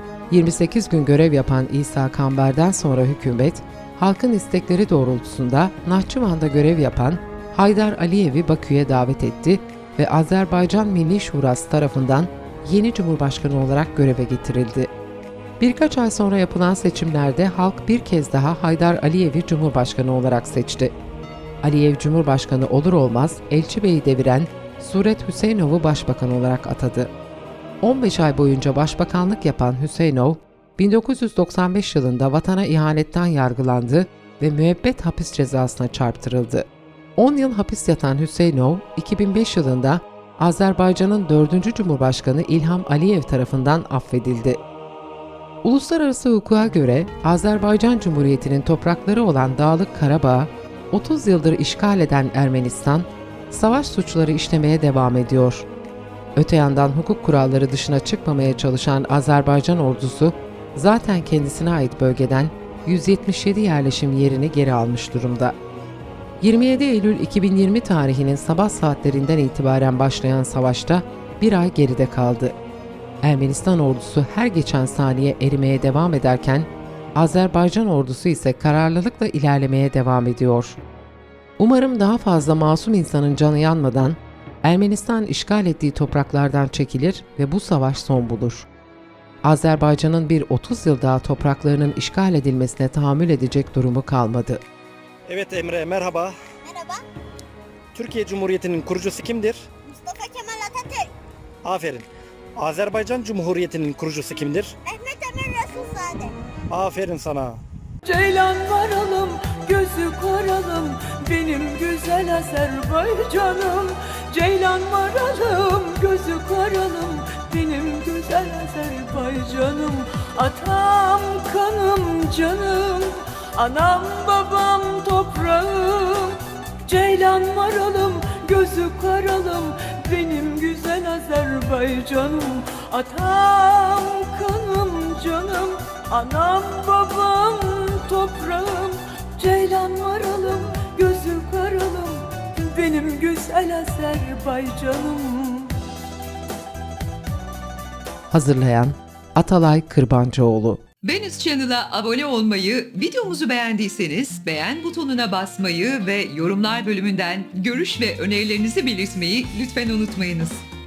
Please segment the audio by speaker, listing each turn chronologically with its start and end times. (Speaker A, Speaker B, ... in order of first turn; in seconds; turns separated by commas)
Speaker A: 0.3-14.9, Speaker A: 15.6-20.9, Speaker A: 21.6-27.1, Speaker A: 27.8-44.6, Speaker A: 45.6-55.7, Speaker A: 56.4-65.5, Speaker A: 66.4-72.5, Speaker A: 73.2-80.8, Speaker A: 81.6-88.7, Speaker A: 89.4-94.6, Speaker B: 95.3-96.5, Speaker C: 96.6-97.0, Speaker B: 97.9-99.7, Speaker C: 99.8-101.1, Speaker B: 101.6-104.8, Speaker C: 104.8-106.3, Speaker B: 106.7-107.6, Speaker D: 108.0-145.7, Speaker A: 148.3-150.8, Speaker E: 151.0-160.6